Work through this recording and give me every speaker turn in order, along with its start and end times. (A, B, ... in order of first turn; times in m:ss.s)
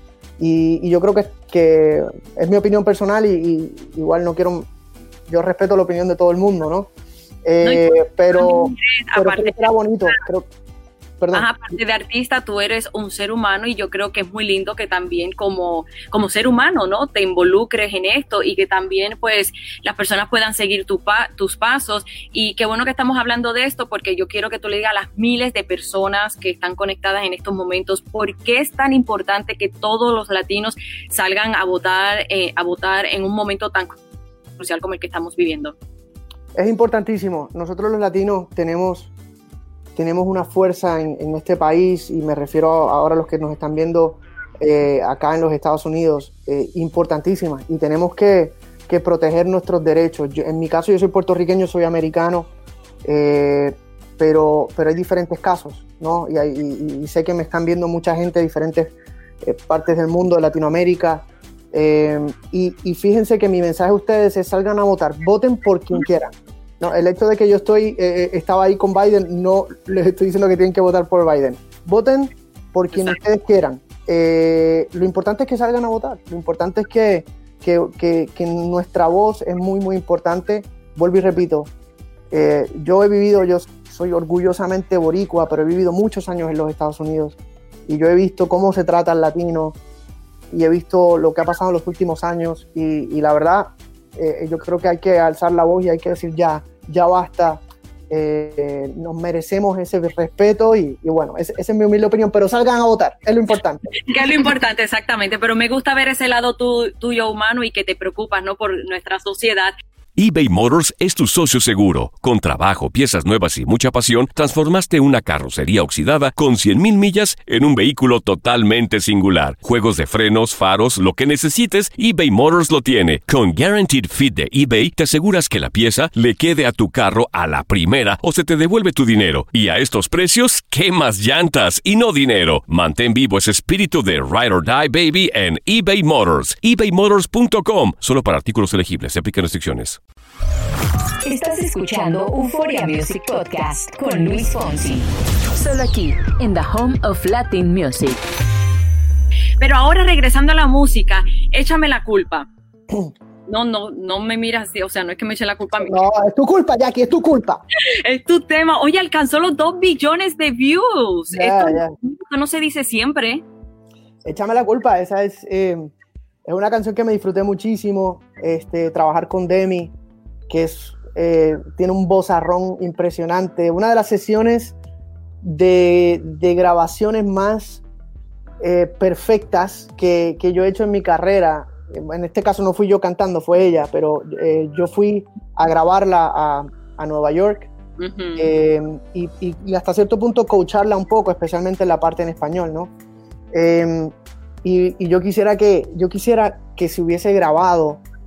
0:00.4-0:04.7 A
0:05.3-0:06.9 A
0:07.4-0:10.5 A
0:07.6-0:09.7 B
0:11.2-0:11.5 A
0:11.3-0:34.0 B
0:34.6-0:35.8 B
0:36.6-0:39.1 A
0:40.0-0:52.5 A
0:53.0-1:21.7 A
1:22.3-1:29.8 A
1:30.5-1:43.9 A
1:44.1-1:49.7 B
1:50.2-2:20.0 C
2:21.2-2:28.2 D
2:29.6-2:32.5 B
2:33.5-2:36.0 B
2:35.8-2:37.6 A
2:38.0-2:43.4 B
2:41.3-2:42.0 A
2:44.2-2:45.9 A
2:46.4-2:49.9 A
2:50.5-2:54.8 A
2:55.4-2:57.8 A
2:58.6-3:07.7 A
3:08.0-3:08.5 B
3:08.4-3:12.9 A
3:13.5-3:18.0 A